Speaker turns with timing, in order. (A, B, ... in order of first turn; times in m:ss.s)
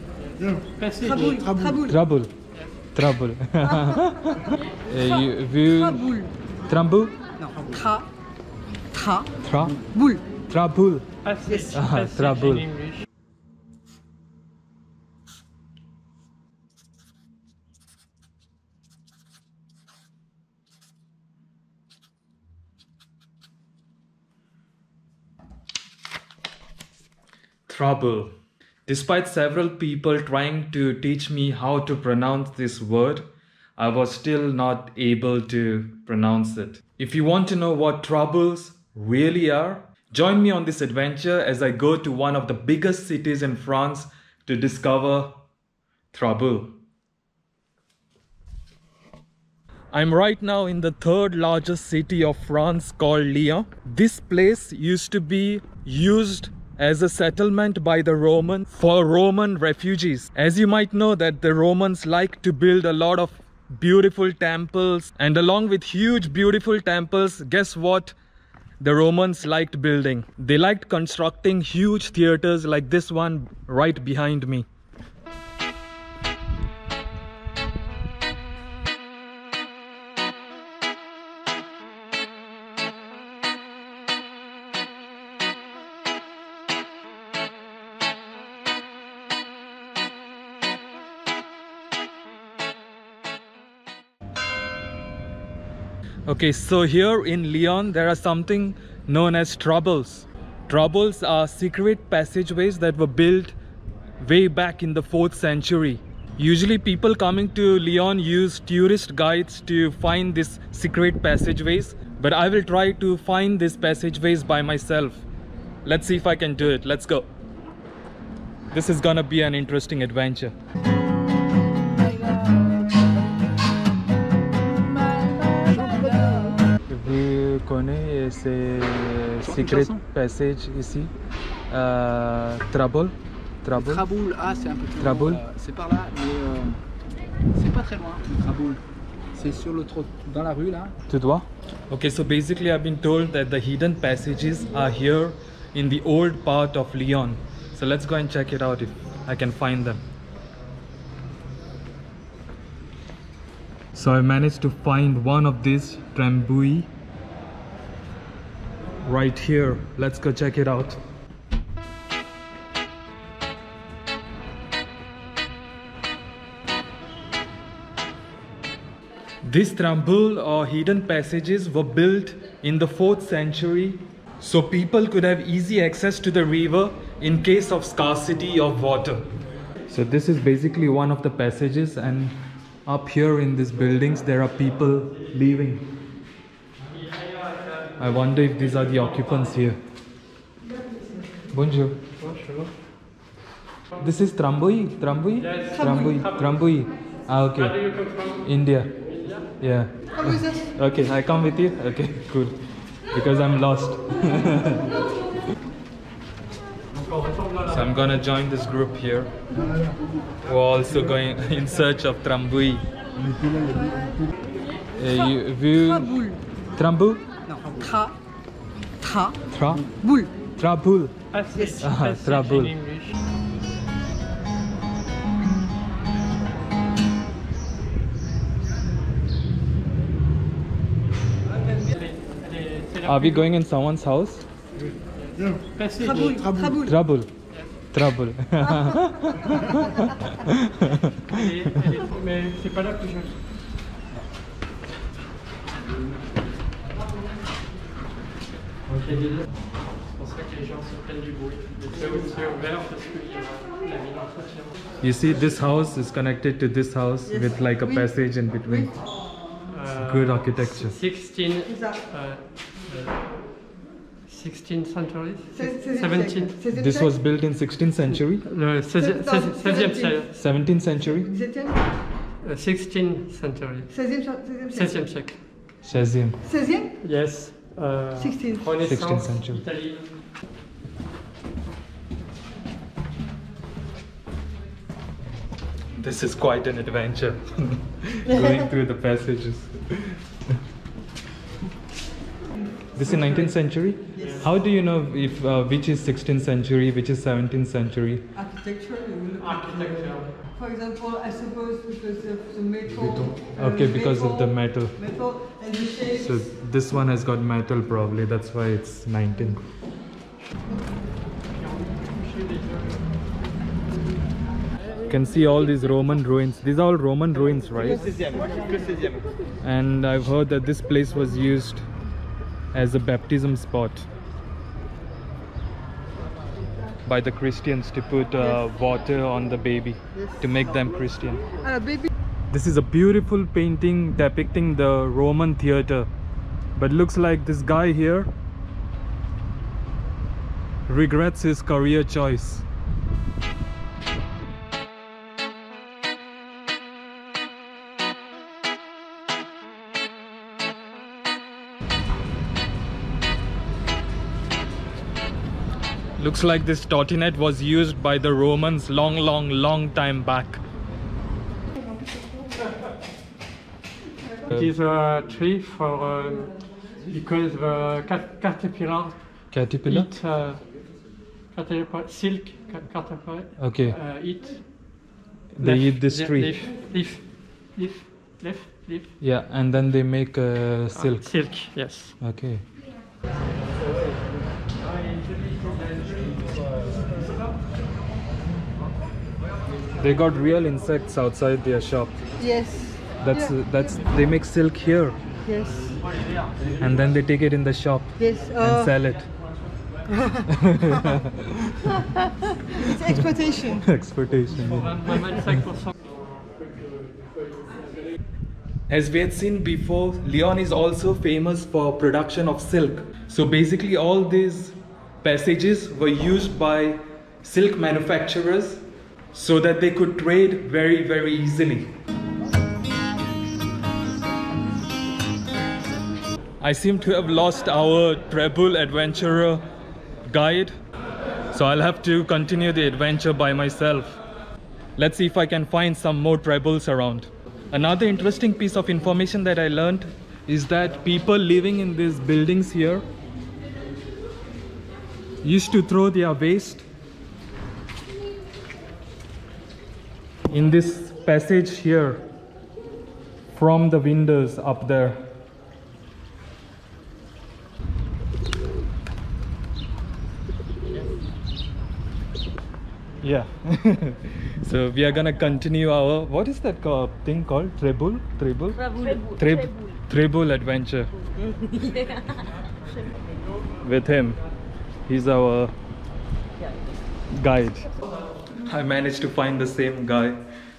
0:00.2-0:01.6 A
0:01.1-0:01.9 B
0:01.8-0:02.3 C
0:02.9-0:07.1 C
0:07.5-0:08.1 B
0:08.9-0:09.3 B
0:09.4-0:09.9 C
0:10.5-0:11.1 C
0:11.2-0:13.1 A
0:11.7-0:12.7 C
0:27.7-0:28.3 C
0:28.8-0:45.4 C
0:46.1-0:46.8 C
0:49.9-1:08.2 C
1:08.8-1:14.7 C
1:36.3-1:43.6 C
1:44.2-1:55.2 C
1:55.8-1:57.3 C
1:58.7-2:00.6 C
2:06.9-2:11.1 C
2:09.4-2:10.0 D
2:11.7-2:14.1 C
2:13.7-2:16.8 D
2:15.0-2:15.4 C
2:17.5-2:18.8 D
2:19.3-2:20.9 D
2:21.1-2:30.0 C
2:33.9-2:36.9 C
2:39.0-2:41.0 C
2:49.4-2:59.2 C
2:59.9-3:05.9 C
3:08.0-3:09.8 C
3:11.5-3:12.0 C
3:12.2-3:12.7 A
3:14.0-3:17.8 C
3:15.4-3:15.8 A
3:17.8-3:18.4 A
3:18.4-3:19.0 C
3:19.6-3:24.9 C
3:27.1-3:27.7 A
3:27.6-3:29.3 C
3:30.4-3:32.8 C
3:35.0-3:37.2 C
3:37.6-3:38.1 B
3:39.0-3:39.3 B
3:39.5-3:39.9 C
3:40.0-3:40.3 B
3:40.6-3:41.1 C
3:41.3-3:43.2 A
3:41.8-3:42.8 C
3:51.8-3:53.5 A
3:53.0-3:54.4 C
3:55.3-3:56.5 A
3:56.1-3:56.9 B
3:56.8-3:57.3 C
3:57.9-4:01.3 C
4:01.3-4:03.4 A
4:09.1-4:09.4 A
4:10.1-4:14.8 A
4:15.0-4:19.0 C
4:19.7-4:23.3 A
4:20.0-4:21.0 C
4:24.3-4:26.6 A
4:26.7-4:28.4 C
4:28.4-4:30.3 A
4:30.3-4:31.4 C
4:31.3-4:31.7 B
4:32.4-4:34.1 A
4:33.9-4:34.8 B
4:34.6-4:35.4 A
4:35.8-4:36.4 C
4:36.5-4:36.9 B
4:37.0-4:40.0 A
4:38.8-4:39.6 C
4:46.0-4:50.2 C
4:52.9-4:58.3 C
4:58.5-4:59.4 B
4:59.4-5:00.4 A
5:00.6-5:03.6 B
5:02.9-5:05.2 C
5:05.4-5:06.1 B
5:06.1-5:09.6 C
5:11.6-5:13.0 A
5:15.1-5:18.4 C
5:19.6-5:21.9 C
5:22.7-5:24.1 C
5:27.0-5:31.4 C
5:31.7-5:32.1 B
5:32.5-5:36.1 C
5:36.8-5:38.3 C
5:40.9-5:42.6 C
5:56.2-6:00.6 C
6:04.5-6:10.9 A
6:09.5-6:10.1 C
6:11.5-6:19.1 A
6:13.6-6:14.0 C
6:15.5-6:16.5 C
6:19.2-6:22.6 C
6:20.9-6:22.2 A
6:25.2-6:26.2 A
6:30.0-6:32.2 C
6:32.4-6:33.0 B
6:33.2-6:35.2 C
6:35.5-6:35.8 B
6:36.8-6:39.3 C
6:38.3-6:38.6 B
6:40.5-6:41.9 C
6:42.8-6:45.0 C
6:42.9-6:43.7 B
6:44.7-6:47.4 A
6:48.9-7:01.9 C
7:06.6-7:09.6 C
7:10.2-7:10.8 C
7:11.5-7:14.2 C
7:15.0-7:23.0 C
7:25.4-7:26.9 C
7:30.5-7:32.2 C
7:33.5-7:35.3 C
7:43.2-7:51.1 C
7:53.8-7:54.4 C
7:55.1-7:55.7 C
7:57.3-7:57.9 C
7:58.5-8:00.4 C